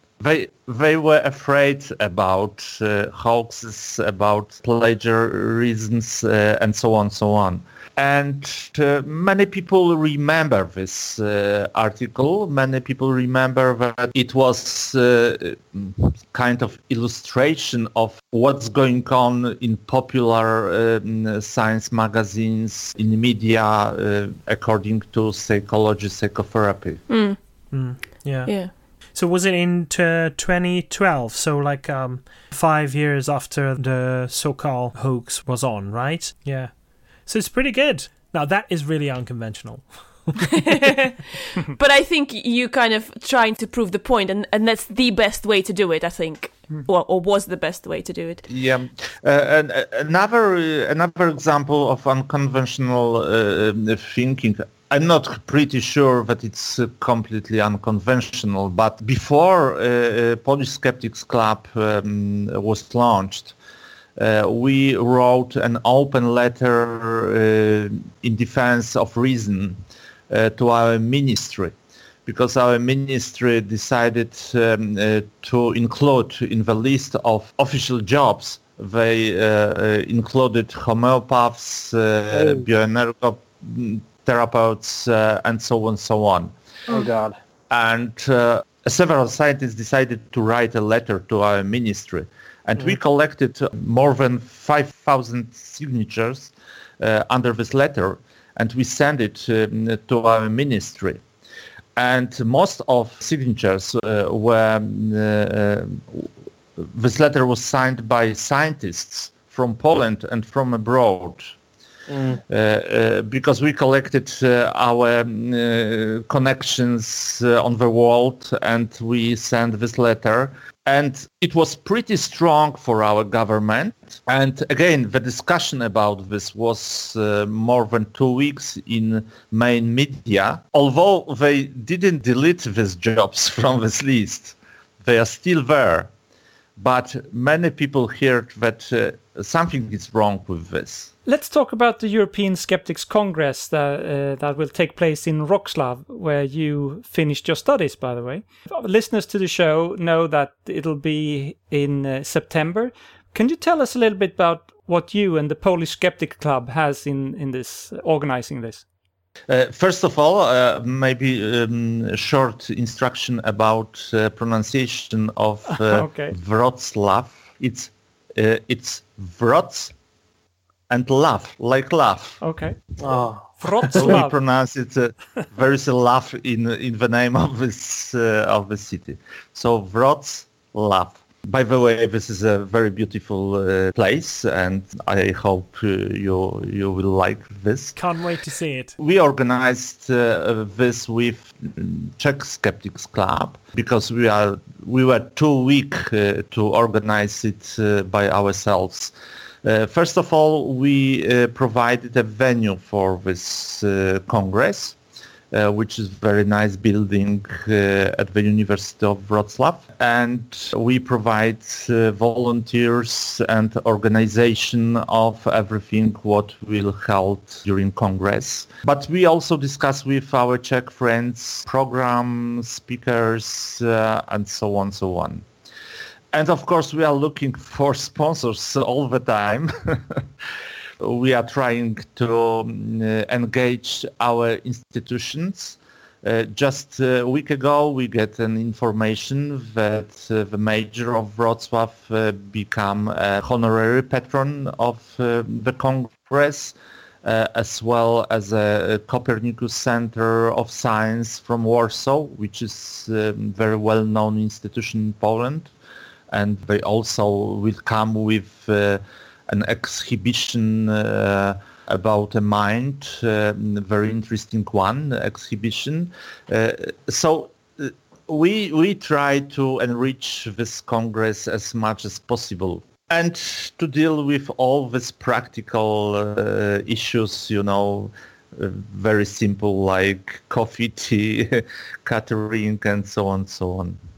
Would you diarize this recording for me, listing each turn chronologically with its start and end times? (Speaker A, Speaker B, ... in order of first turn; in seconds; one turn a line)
Speaker A: 0.2-27.0
Speaker B: 27.1-27.4
Speaker C: 27.7-28.6
Speaker C: 29.1-36.7
Speaker C: 37.2-40.9
Speaker B: 40.5-48.5
Speaker A: 48.5-63.5
Speaker A: 64.2-69.8
Speaker A: 70.3-71.7
Speaker A: 72.2-86.5
Speaker D: 82.3-82.7
Speaker D: 86.9-87.4
Speaker A: 87.7-101.2
Speaker A: 102.0-111.5
Speaker D: 112.1-112.4
Speaker A: 112.5-136.1
Speaker A: 136.8-141.1
Speaker E: 141.2-158.8
Speaker A: 159.5-169.9
Speaker E: 165.8-166.3
Speaker A: 170.9-172.4
Speaker E: 172.4-172.8
Speaker D: 173.0-174.2
Speaker E: 173.6-174.3
Speaker A: 173.9-187.9
Speaker C: 187.9-189.0
Speaker A: 189.0-199.1
Speaker A: 199.6-204.9
Speaker A: 205.5-225.4
Speaker A: 226.3-230.2
Speaker A: 231.0-255.7
Speaker A: 256.3-284.0